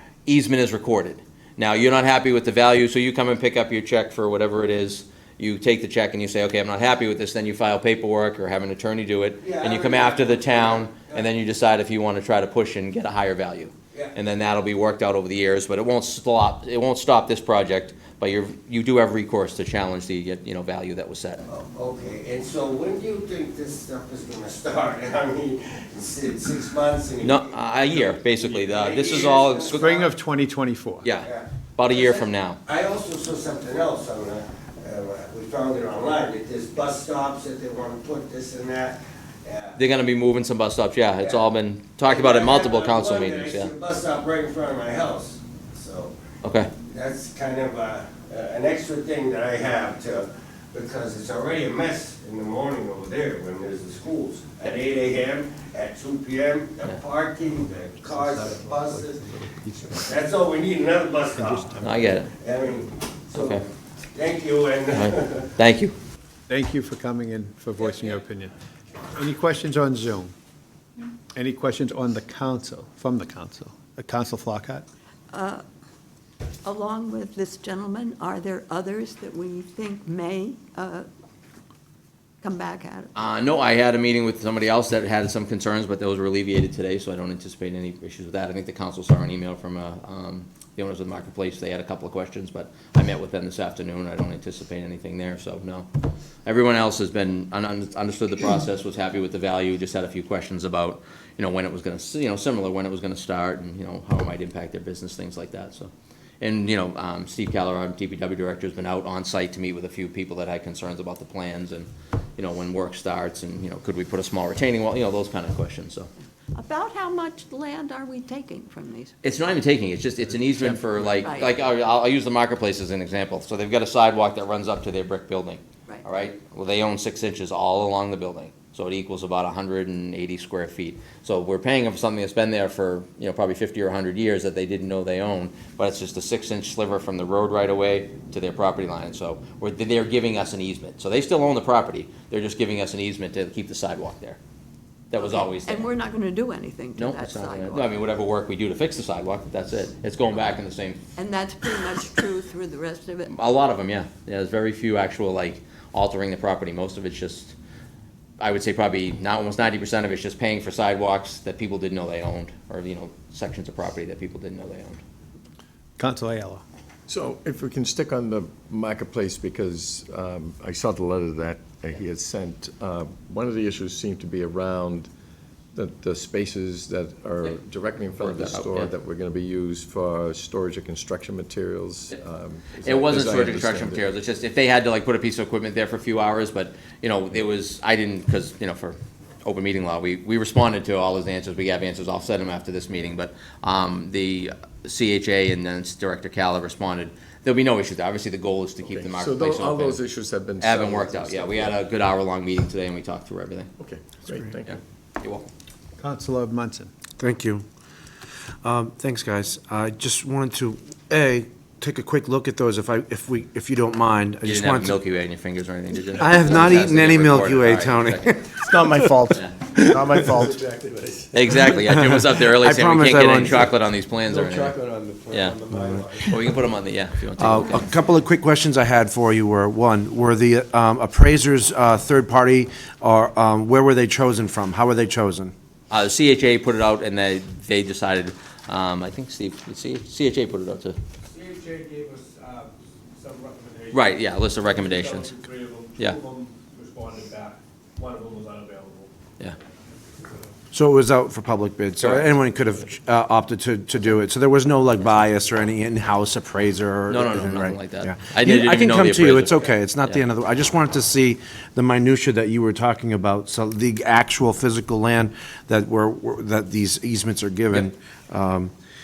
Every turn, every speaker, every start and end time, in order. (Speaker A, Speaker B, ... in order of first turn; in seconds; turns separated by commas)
Speaker A: 0.3-21.4, Speaker B: 9.4-11.3, Speaker B: 21.5-30.1, Speaker A: 27.2-30.1, Speaker C: 29.8-31.1, Speaker A: 31.0-32.6, Speaker B: 31.2-39.8, Speaker A: 39.8-43.7, Speaker B: 41.2-46.1, Speaker A: 46.4-46.7, Speaker B: 46.9-59.3, Speaker B: 59.8-63.6, Speaker A: 61.8-62.3, Speaker A: 63.4-63.6, Speaker B: 64.1-65.5, Speaker A: 64.9-65.9, Speaker C: 66.5-68.5, Speaker B: 67.8-68.2, Speaker C: 69.1-70.3, Speaker C: 71.3-74.9, Speaker D: 75.3-75.6, Speaker D: 76.7-81.1, Speaker D: 82.4-83.1, Speaker A: 83.2-95.9, Speaker A: 96.5-116.1, Speaker D: 116.5-119.2, Speaker A: 119.2-144.4, Speaker D: 120.9-121.6, Speaker A: 145.1-145.9, Speaker D: 145.1-147.9, Speaker A: 147.0-151.0, Speaker D: 151.2-153.3, Speaker A: 153.3-157.5, Speaker A: 158.4-165.0, Speaker C: 166.0-166.6, Speaker E: 167.1-175.1, Speaker E: 175.7-184.1, Speaker A: 178.1-178.9, Speaker A: 182.8-200.0, Speaker E: 198.8-201.8, Speaker A: 200.6-203.7, Speaker E: 203.8-204.8, Speaker A: 204.7-205.5, Speaker C: 206.0-206.9, Speaker F: 207.2-207.6, Speaker F: 208.6-215.0, Speaker A: 214.4-218.4, Speaker F: 216.1-219.1, Speaker E: 218.6-219.3, Speaker C: 219.1-219.4, Speaker A: 219.3-219.6, Speaker E: 219.8-221.3, Speaker A: 221.3-224.8, Speaker F: 221.6-223.7, Speaker E: 224.2-226.3, Speaker A: 225.3-225.6, Speaker A: 226.2-227.9, Speaker F: 227.4-235.5, Speaker A: 235.9-241.0, Speaker G: 241.3-242.3, Speaker C: 241.9-242.7, Speaker G: 243.2-243.9, Speaker A: 243.9-245.3, Speaker C: 245.1-245.8, Speaker G: 245.5-247.5, Speaker G: 248.0-249.0, Speaker C: 248.6-248.9, Speaker F: 250.7-268.7, Speaker A: 252.0-252.3, Speaker A: 257.1-260.2